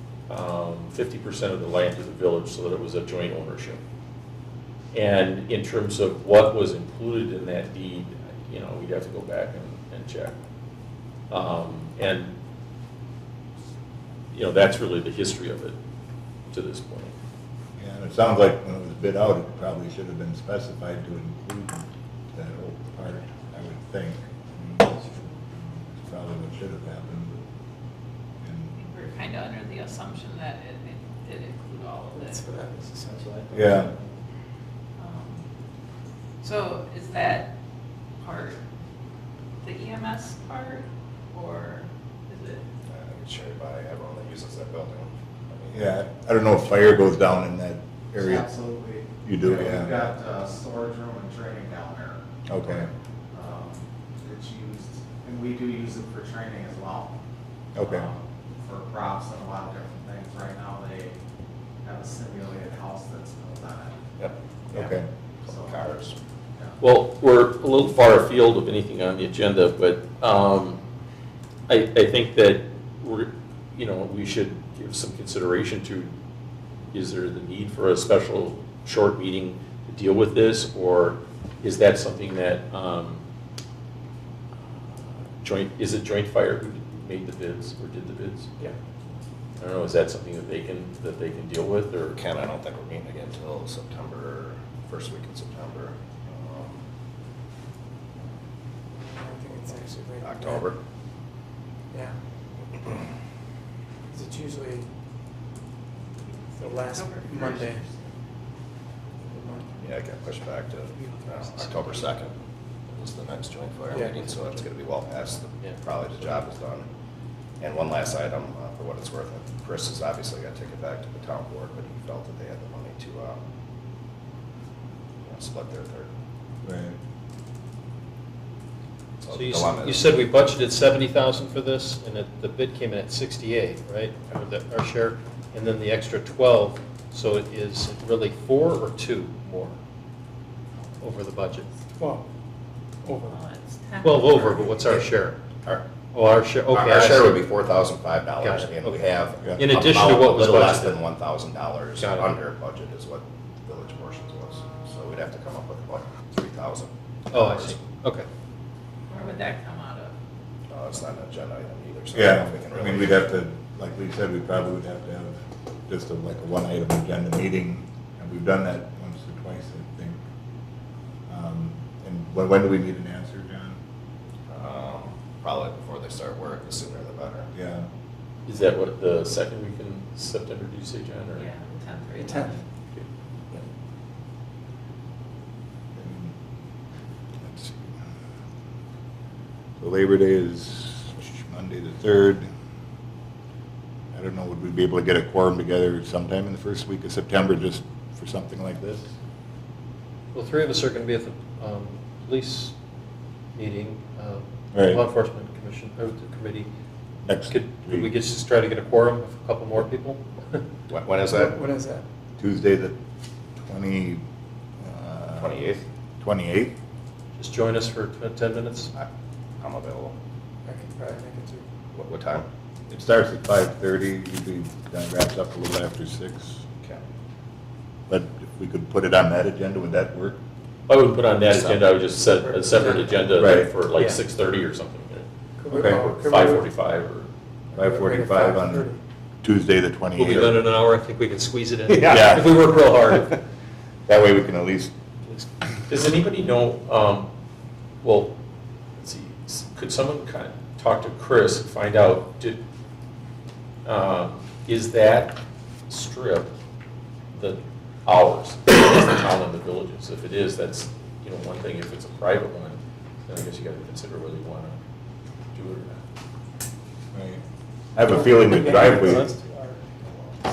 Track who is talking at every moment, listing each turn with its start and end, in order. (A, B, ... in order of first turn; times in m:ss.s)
0:00.3-0:03.8 A
0:04.9-0:10.3 A
0:11.3-0:12.4 A
0:14.3-0:15.8 A
0:16.5-0:17.1 A
0:17.8-0:27.3 B
0:28.4-0:28.7 B
0:28.8-0:32.4 C
0:32.2-0:33.6 D
0:33.5-0:33.9 B
0:35.0-0:35.4 C
0:36.4-0:37.5 C
0:38.2-0:38.6 C
0:39.6-0:42.6 C
0:42.9-0:45.9 E
0:45.7-0:48.5 B
0:48.2-0:57.2 F
0:49.2-0:49.9 B
0:52.5-0:52.9 B
0:57.7-0:58.1 B
0:57.8-1:01.2 F
1:01.8-1:04.0 F
1:04.7-1:06.0 F
1:04.7-1:05.1 B
1:05.4-1:06.2 E
1:06.8-1:10.8 A
1:11.7-1:16.1 A
1:16.9-1:23.2 A
1:25.4-1:28.7 A
1:29.6-1:32.2 A
1:32.1-1:36.8 E
1:39.1-1:40.4 D
1:40.1-1:40.8 E
1:44.1-1:44.9 D
1:46.2-1:48.1 C
1:46.6-1:47.8 D
1:49.3-1:49.6 D
1:49.8-1:52.4 E
1:52.9-1:56.8 E
1:53.9-1:54.2 D
1:57.6-2:03.4 E
2:05.2-2:06.1 E
2:06.6-2:07.0 B
2:09.2-2:10.1 E
2:09.3-2:19.7 G
2:21.0-2:21.7 G
2:23.0-2:23.4 D
2:23.3-2:24.8 C
2:24.0-2:25.4 G
2:24.4-2:25.1 E
2:26.0-2:27.4 G
2:26.7-2:37.8 E
2:28.4-2:29.0 G
2:29.6-2:31.0 G
2:32.0-2:32.4 G
2:37.3-2:38.3 G
2:39.1-2:40.1 C
2:40.7-2:43.3 E
2:42.1-2:50.2 B
2:51.3-2:53.8 B
2:54.5-2:57.5 E
2:57.5-2:57.9 B
2:58.4-3:01.5 A
3:01.3-3:02.6 C
3:06.0-3:06.3 B
3:07.4-3:08.1 B
3:09.8-3:12.5 B
3:14.1-3:19.1 B
3:20.3-3:22.7 G
3:23.5-3:26.7 G
3:24.7-3:25.0 B
3:27.2-3:28.1 B
3:27.5-3:30.6 G
3:30.9-3:31.6 E
3:31.4-3:32.0 D
3:32.4-3:32.9 B
3:33.6-3:34.2 B
3:34.8-3:35.6 B
3:35.4-3:35.8 E
3:36.2-3:36.7 B
3:37.4-3:38.9 G
3:39.6-3:40.1 E
3:40.6-3:41.6 D
3:41.9-3:42.5 E
3:42.9-3:46.6 B
3:48.1-3:50.4 B
3:50.9-3:57.3 A
3:52.2-3:53.2 D
3:53.4-3:53.7 B
3:55.6-3:56.6 D
3:55.7-3:56.0 B
3:57.7-3:58.9 B
3:57.8-3:58.9 D
3:59.4-4:00.6 B
4:00.1-4:03.3 G
4:01.9-4:03.3 B
4:04.1-4:04.9 B
4:05.9-4:07.3 A
4:08.0-4:08.4 A
4:09.0-4:12.6 A
4:13.8-4:16.5 A
4:17.3-4:24.8 A
4:25.5-4:26.0 A
4:27.1-4:27.4 B
4:27.9-4:29.3 B
4:28.1-4:29.8 D